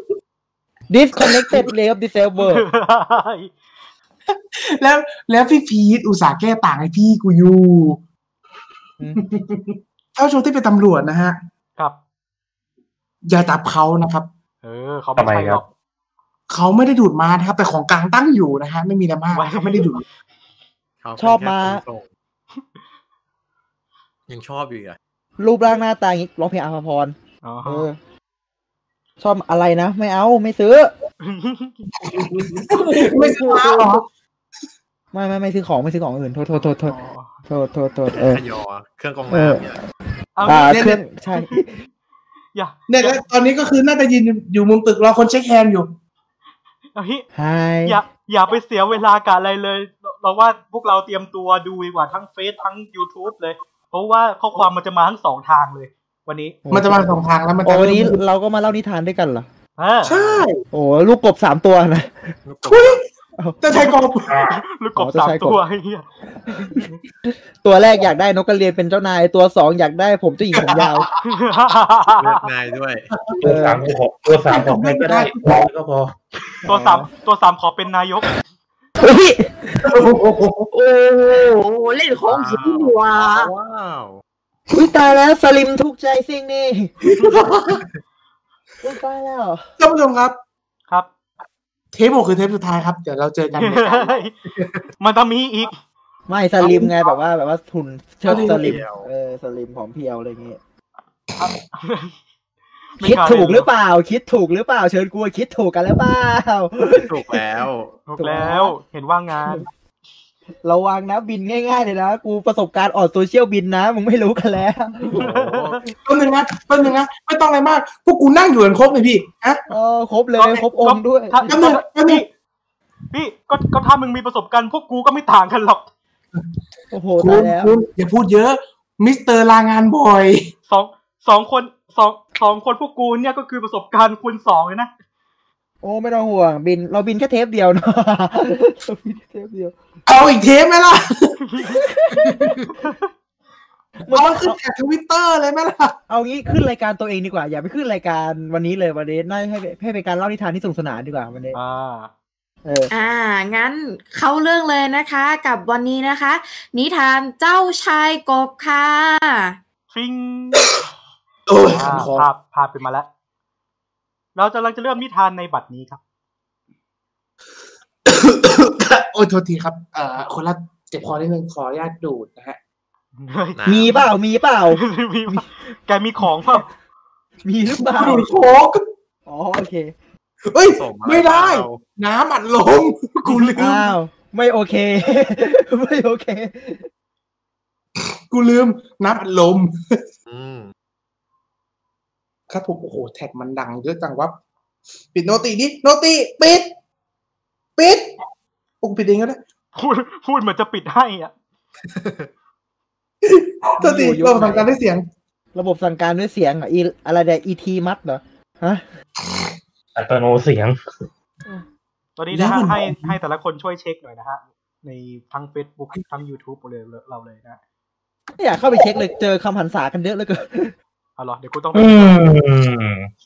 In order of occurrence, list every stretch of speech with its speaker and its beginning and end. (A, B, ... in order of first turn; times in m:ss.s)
0:00.9-0:02.6 A
0:01.2-0:01.7 B
0:02.4-0:03.5 C
0:04.3-0:08.0 B
0:09.1-0:11.4 B
0:13.3-0:14.3 B
0:14.6-0:15.7 C
0:15.2-0:15.6 D
0:16.5-0:20.0 B
0:19.3-0:19.9 C
0:21.0-0:22.0 E
0:21.2-0:21.8 A
0:24.3-0:25.0 E
0:25.4-0:28.0 A
0:27.4-0:27.9 C
0:29.2-0:30.9 A
0:31.2-0:31.8 C
0:32.0-0:34.0 B
0:32.6-0:34.0 A
0:35.1-0:37.0 A
0:36.8-0:37.3 C
0:37.5-0:38.4 A
0:38.1-0:39.8 E
0:39.3-0:39.8 A
0:40.4-0:41.6 C
0:40.4-0:41.8 A
0:40.7-0:41.0 B
0:42.6-0:43.2 C
0:42.9-0:45.9 B
0:47.0-0:47.3 C
0:47.3-0:48.0 A
0:47.8-0:56.6 C
0:56.7-0:59.5 A
0:56.7-0:58.2 B
0:59.8-1:00.1 C
1:00.0-1:00.5 E
1:00.1-1:00.6 B
1:00.7-1:02.3 A
1:02.4-1:03.0 E
1:02.7-1:03.0 B
1:03.6-1:04.4 B
1:04.3-1:04.6 D
1:04.4-1:06.9 C
1:05.0-1:05.6 A
1:06.7-1:11.1 A
1:10.6-1:11.1 B
1:11.2-1:12.4 C
1:12.1-1:13.1 E
1:13.1-1:13.9 B
1:13.4-1:16.2 D
1:13.4-1:13.9 A
1:14.4-1:15.7 B
1:16.7-1:18.4 C
1:19.0-1:19.9 A
1:19.8-1:20.7 B
1:20.7-1:23.5 F
1:22.3-1:24.2 E
1:24.7-1:26.9 A
1:27.1-1:27.8 B
1:28.8-1:29.7 A
1:29.8-1:30.4 B
1:31.9-1:34.7 B
1:33.6-1:34.4 C
1:35.0-1:35.8 C
1:36.3-1:40.6 A
1:38.3-1:39.1 E
1:38.3-1:38.8 B
1:41.4-1:42.1 C
1:43.0-1:43.7 C
1:43.0-1:47.4 A
1:46.9-1:48.0 E
1:48.1-1:49.7 C
1:48.2-1:48.8 A
1:50.6-1:55.3 A
1:55.1-1:55.9 E
1:55.2-1:55.8 C
1:56.0-1:59.6 B
1:59.7-2:01.5 A
2:00.4-2:02.3 C
2:01.5-2:02.2 B
2:03.1-2:05.9 C
2:06.9-2:07.8 A
2:07.2-2:10.5 B
2:10.7-2:14.9 C
2:15.8-2:19.8 A
2:20.1-2:21.4 B
2:21.5-2:21.8 C
2:21.6-2:22.5 A
2:22.1-2:22.6 B
2:24.1-2:24.6 A
2:24.1-2:26.0 B
2:26.1-2:31.6 A
2:31.5-2:32.1 C
2:32.6-2:32.9 A
2:32.9-2:39.6 F
2:39.9-2:40.7 C
2:41.5-2:42.3 B
2:41.7-2:43.1 C
2:44.4-2:46.0 C
2:48.1-2:52.6 B
2:53.2-2:54.0 C
2:53.6-2:54.0 E
2:53.7-2:55.5 A
2:54.7-2:56.7 C
2:57.4-2:58.4 A
2:57.8-2:58.8 B
2:59.3-2:59.9 A
3:00.5-3:03.9 B
3:00.7-3:01.8 E
3:03.3-3:03.5 C
3:03.6-3:06.9 A
3:08.0-3:10.0 B
3:10.3-3:10.7 E
3:12.5-3:14.4 B
3:15.1-3:16.7 B
3:17.8-3:18.1 B
3:18.8-3:19.4 B
3:19.8-3:21.3 C
3:21.9-3:22.3 E
3:23.2-3:25.1 B
3:23.8-3:24.7 A
3:25.5-3:28.8 A
3:30.0-3:30.8 D
3:32.2-3:37.6 C
3:32.3-3:33.2 B
3:38.4-3:40.8 A
3:41.2-3:42.4 C
3:41.7-3:43.1 D